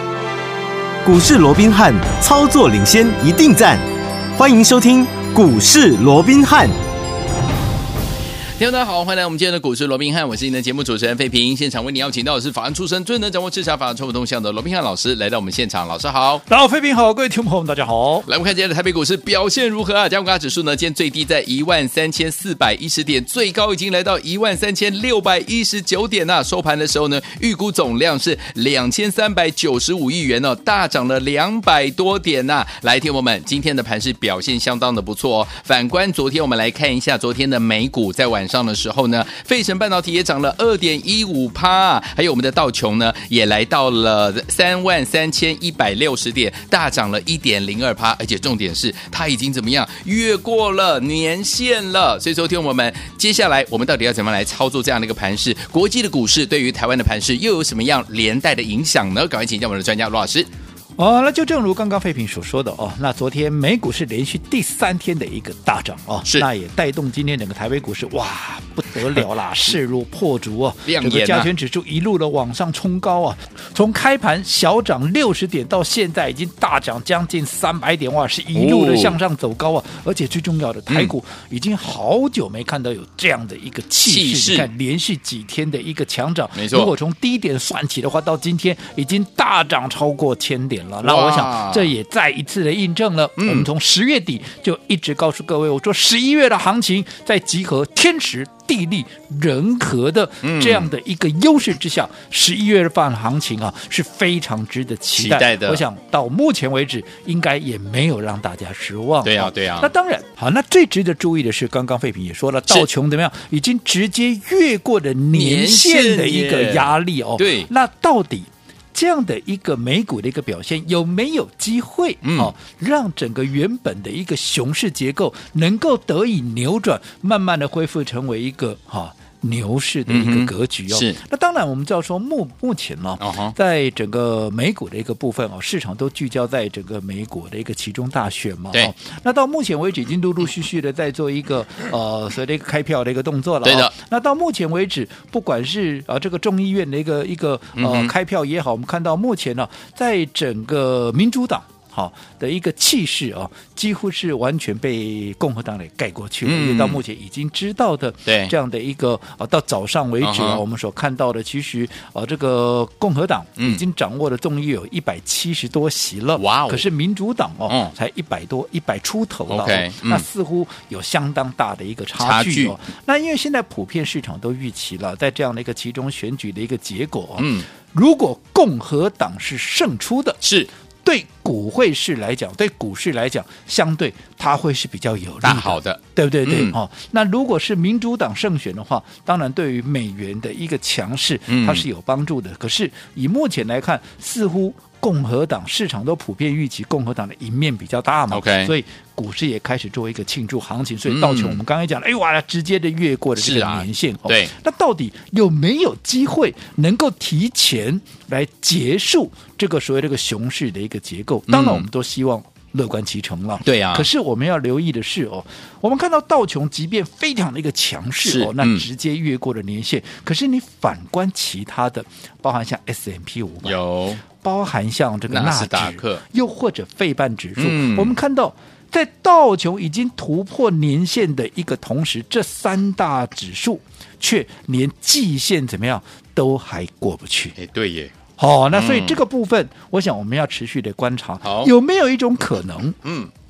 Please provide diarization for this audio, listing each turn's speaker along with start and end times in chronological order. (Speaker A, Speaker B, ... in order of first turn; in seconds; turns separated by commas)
Speaker A: 1.0-3.9, Speaker A: 4.4-6.7, Speaker B: 8.6-16.4, Speaker C: 16.5-18.3, Speaker B: 18.2-60.5, Speaker C: 61.0-180.4, Speaker B: 70.9-71.5, Speaker B: 78.5-79.2, Speaker B: 84.0-84.7, Speaker B: 86.5-86.9, Speaker B: 91.0-91.9, Speaker B: 93.4-93.7, Speaker B: 100.4-100.9, Speaker B: 105.2-105.8, Speaker B: 109.2-109.9, Speaker B: 115.3-117.7, Speaker B: 122.2-122.5, Speaker B: 130.1-131.2, Speaker B: 133.2-133.5, Speaker B: 143.6-143.9, Speaker B: 147.8-148.1, Speaker B: 156.4-157.0, Speaker B: 158.2-158.5, Speaker B: 160.2-160.6, Speaker B: 166.4-166.9, Speaker B: 167.7-167.9, Speaker B: 169.5-170.2, Speaker B: 172.2-172.8, Speaker B: 177.4-177.7, Speaker B: 180.4-180.7, Speaker C: 181.0-223.8, Speaker B: 185.4-186.8, Speaker B: 191.5-191.8, Speaker B: 198.3-198.7, Speaker B: 201.1-201.6, Speaker B: 203.4-204.5, Speaker B: 211.5-211.8, Speaker B: 213.6-214.1, Speaker B: 218.2-218.8, Speaker B: 223.6-224.2, Speaker C: 224.3-237.6, Speaker B: 225.3-226.2, Speaker B: 227.6-228.2, Speaker B: 237.6-238.1, Speaker C: 238.4-243.0, Speaker B: 238.7-239.2, Speaker B: 241.4-241.7, Speaker B: 243.0-243.3